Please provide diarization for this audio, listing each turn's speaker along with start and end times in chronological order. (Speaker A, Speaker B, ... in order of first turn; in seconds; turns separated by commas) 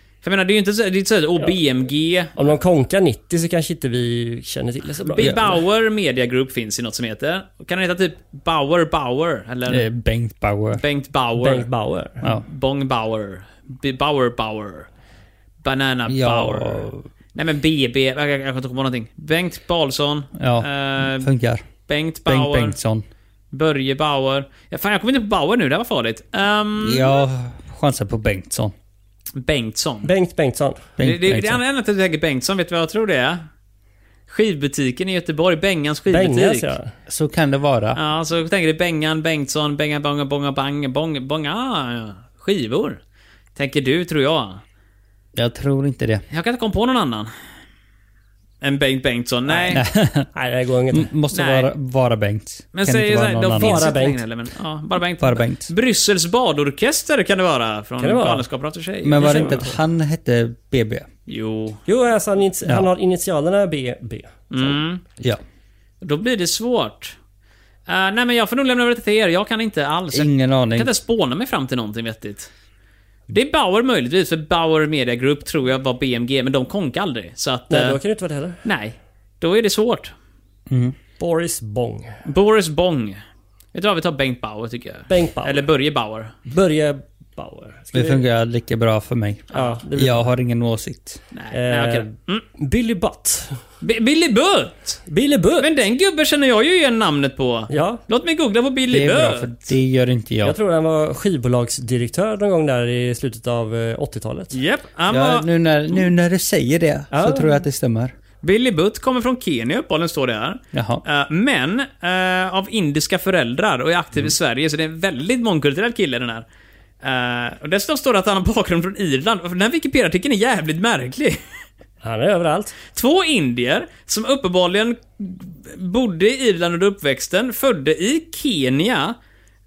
Speaker A: 0.2-2.3, Speaker B: 2.4-5.6, Speaker A: 5.0-9.8, Speaker C: 9.7-10.8, Speaker A: 10.8-11.7, Speaker B: 11.4-12.2, Speaker A: 12.4-14.9, Speaker A: 15.6-21.3, Speaker C: 16.1-17.0, Speaker C: 20.4-21.6, Speaker A: 21.9-22.8, Speaker C: 22.2-23.0, Speaker A: 23.5-27.2, Speaker C: 26.8-28.7, Speaker A: 29.4-30.1, Speaker B: 30.0-30.8, Speaker C: 31.0-31.6, Speaker A: 31.0-33.4, Speaker A: 34.3-36.7, Speaker B: 36.1-36.9, Speaker C: 37.1-38.0, Speaker A: 37.9-43.0, Speaker A: 43.5-44.6, Speaker C: 45.3-46.2, Speaker A: 46.3-47.3, Speaker A: 48.6-49.8, Speaker C: 49.7-50.3, Speaker B: 50.3-51.1, Speaker C: 50.9-53.9, Speaker A: 51.3-51.7, Speaker A: 52.7-59.6, Speaker B: 53.5-54.2, Speaker C: 55.2-55.7, Speaker B: 58.0-58.5, Speaker C: 59.0-61.1, Speaker B: 59.1-59.8, Speaker A: 61.3-61.8, Speaker B: 61.9-64.7, Speaker A: 64.5-65.0, Speaker A: 66.0-67.2, Speaker A: 67.9-72.5, Speaker C: 70.1-70.9, Speaker A: 73.3-78.0, Speaker B: 77.7-78.6, Speaker A: 78.6-80.1, Speaker C: 80.7-80.9, Speaker B: 81.2-82.2, Speaker A: 82.2-83.2, Speaker A: 83.7-86.3, Speaker B: 85.1-85.7, Speaker B: 86.5-88.2, Speaker C: 87.9-91.2, Speaker A: 89.5-89.8, Speaker B: 89.5-90.3, Speaker A: 91.3-92.4, Speaker B: 91.5-93.6, Speaker A: 93.8-95.0, Speaker B: 95.1-95.7, Speaker A: 95.6-99.5, Speaker B: 97.7-98.0, Speaker C: 98.9-100.6, Speaker B: 100.4-104.5, Speaker A: 104.5-105.5, Speaker C: 105.1-108.1, Speaker B: 107.1-107.6, Speaker A: 108.4-116.4, Speaker C: 110.7-111.0, Speaker A: 117.0-121.4, Speaker B: 122.0-122.8, Speaker A: 122.9-129.2